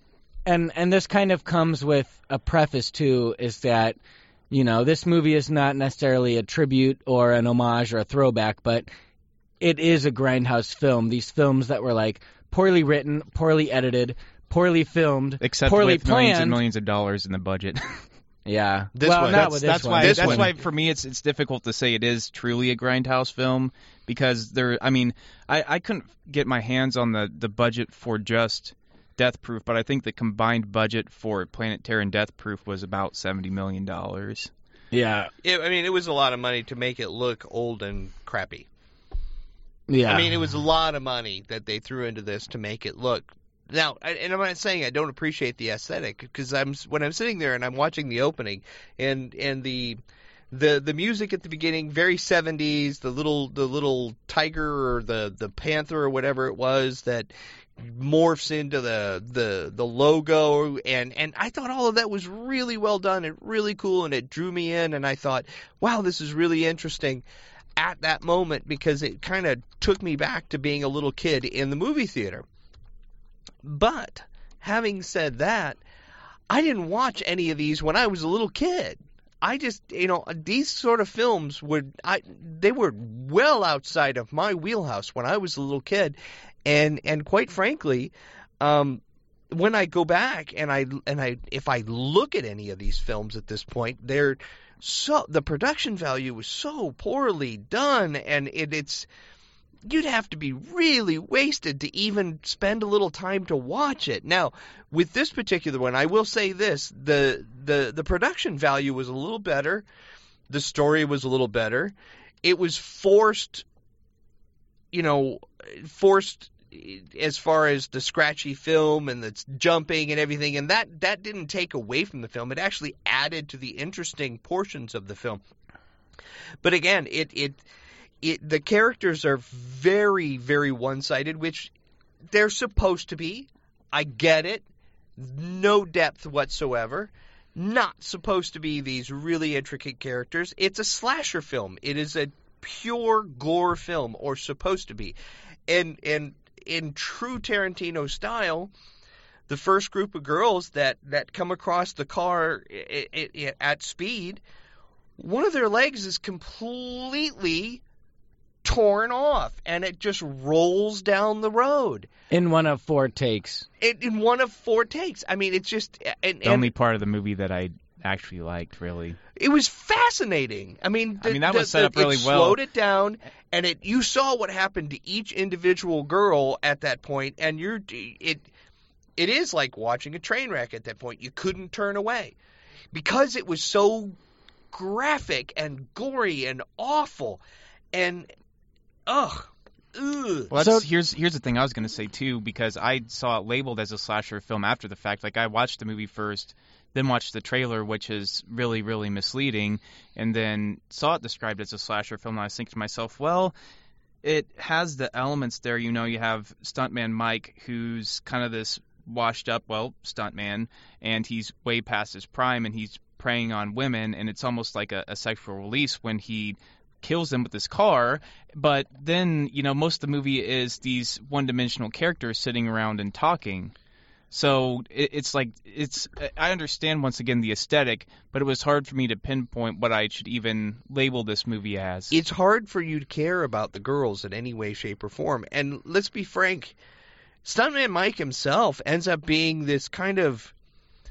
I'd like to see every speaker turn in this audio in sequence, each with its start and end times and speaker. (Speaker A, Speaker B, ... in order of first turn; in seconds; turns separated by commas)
Speaker A: 0.5-4.0, Speaker A: 4.5-8.9, Speaker A: 9.6-16.6, Speaker B: 15.4-18.0, Speaker A: 18.4-20.5, Speaker C: 18.9-20.5, Speaker B: 19.3-34.5, Speaker A: 34.9-35.3, Speaker C: 35.4-38.7, Speaker A: 39.9-40.3, Speaker C: 40.0-50.0, Speaker C: 50.5-67.2, Speaker C: 67.8-72.4, Speaker C: 73.6-75.8, Speaker C: 76.5-99.1, Speaker C: 99.8-109.8, Speaker C: 110.5-113.6, Speaker C: 114.9-125.4, Speaker C: 126.6-127.6, Speaker C: 128.2-131.7, Speaker C: 132.3-134.6, Speaker C: 135.2-145.2, Speaker C: 145.7-148.7, Speaker C: 149.5-154.4, Speaker C: 155.2-157.8, Speaker C: 158.6-162.1, Speaker A: 162.3-163.7, Speaker C: 163.8-166.7, Speaker B: 166.4-169.2, Speaker C: 169.3-178.5, Speaker B: 171.2-172.6, Speaker C: 179.2-182.3, Speaker C: 182.9-184.2, Speaker C: 184.7-187.4, Speaker C: 187.9-188.3, Speaker C: 189.1-190.5, Speaker B: 190.5-203.5, Speaker A: 190.6-190.8, Speaker B: 204.2-223.7, Speaker B: 224.3-232.2, Speaker C: 232.1-236.8, Speaker C: 237.4-240.5